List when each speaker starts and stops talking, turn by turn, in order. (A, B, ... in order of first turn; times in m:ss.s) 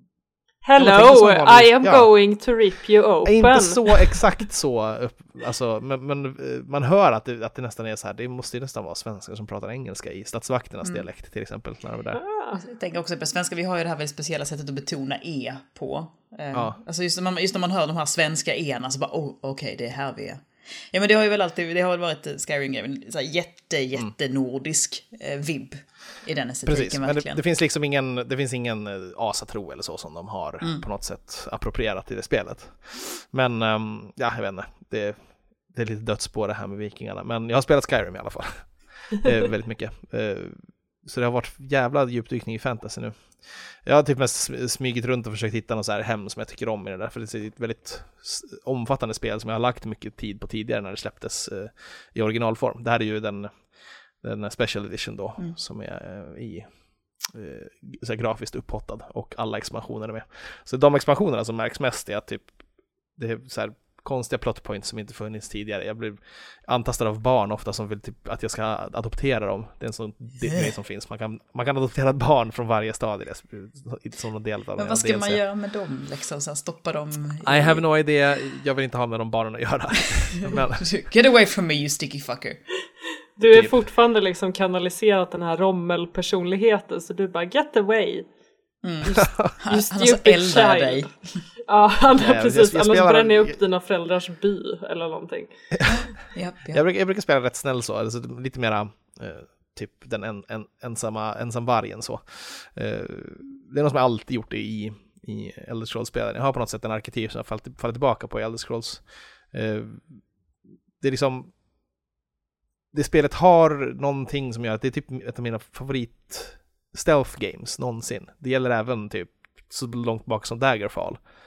0:00.6-0:04.2 A
0:00.8-0:02.1 B
0:03.2-0:12.2 B
0:12.2-0:12.6 A
0:12.6-0:27.4 C
0:16.5-0:16.8 B
0:26.6-1:02.5 B
1:03.1-1:15.4 B
1:14.8-1:17.8 C
1:17.4-1:20.9 B
1:20.4-1:22.6 C
1:23.4-1:28.2 A
1:23.5-1:23.8 B
1:28.8-1:31.4 C
1:29.1-1:31.1 A
1:29.2-1:29.5 B
1:31.6-1:35.5 A
1:32.2-1:33.6 B
1:35.9-1:36.8 C
1:36.7-1:50.2 B
1:51.0-1:51.5 B
1:52.9-2:01.2 B